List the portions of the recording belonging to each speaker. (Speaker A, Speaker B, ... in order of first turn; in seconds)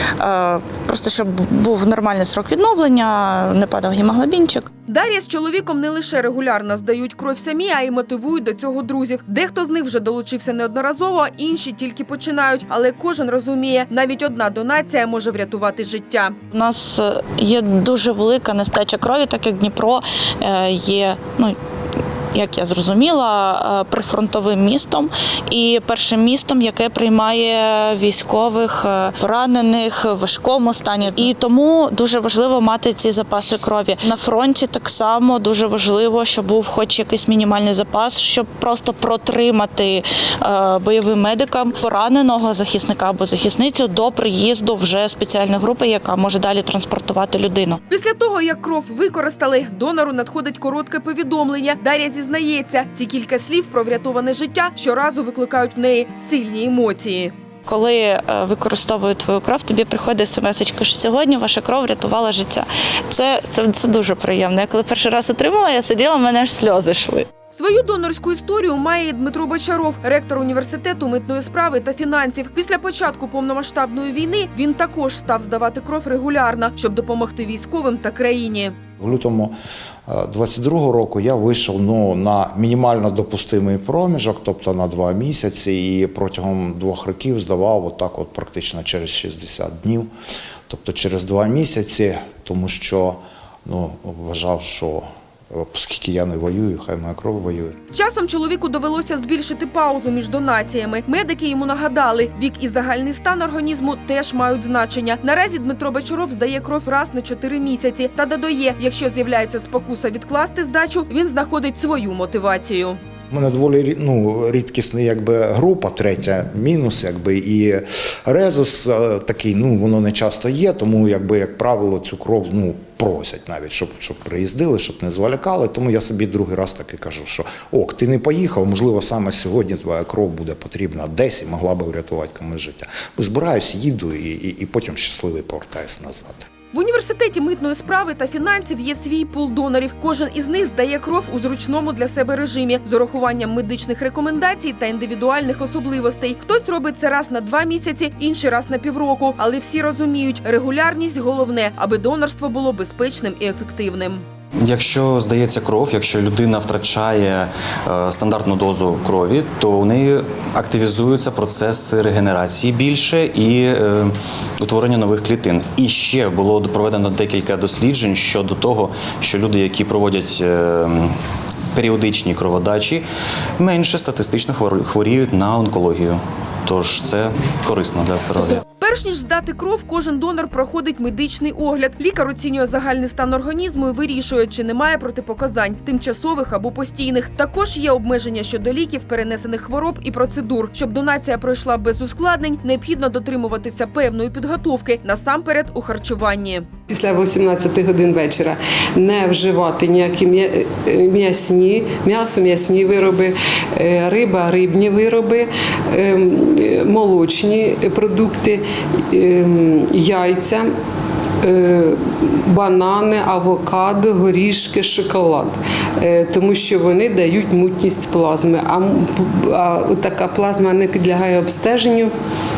Speaker A: 0.2-4.7, 16.5-21.6, 22.3-47.8, 57.7-67.3
Speaker B: 4.9-16.3, 47.9-57.3, 67.5-78.8, 97.9-113.0, 136.7-154.2, 178.8-196.7
Speaker C: 79.0-79.5, 80.1-90.1, 90.7-97.8, 113.3-136.4
Speaker D: 154.6-171.1, 171.7-173.1, 173.6-178.6
Speaker E: 196.9-210.7, 211.4-222.1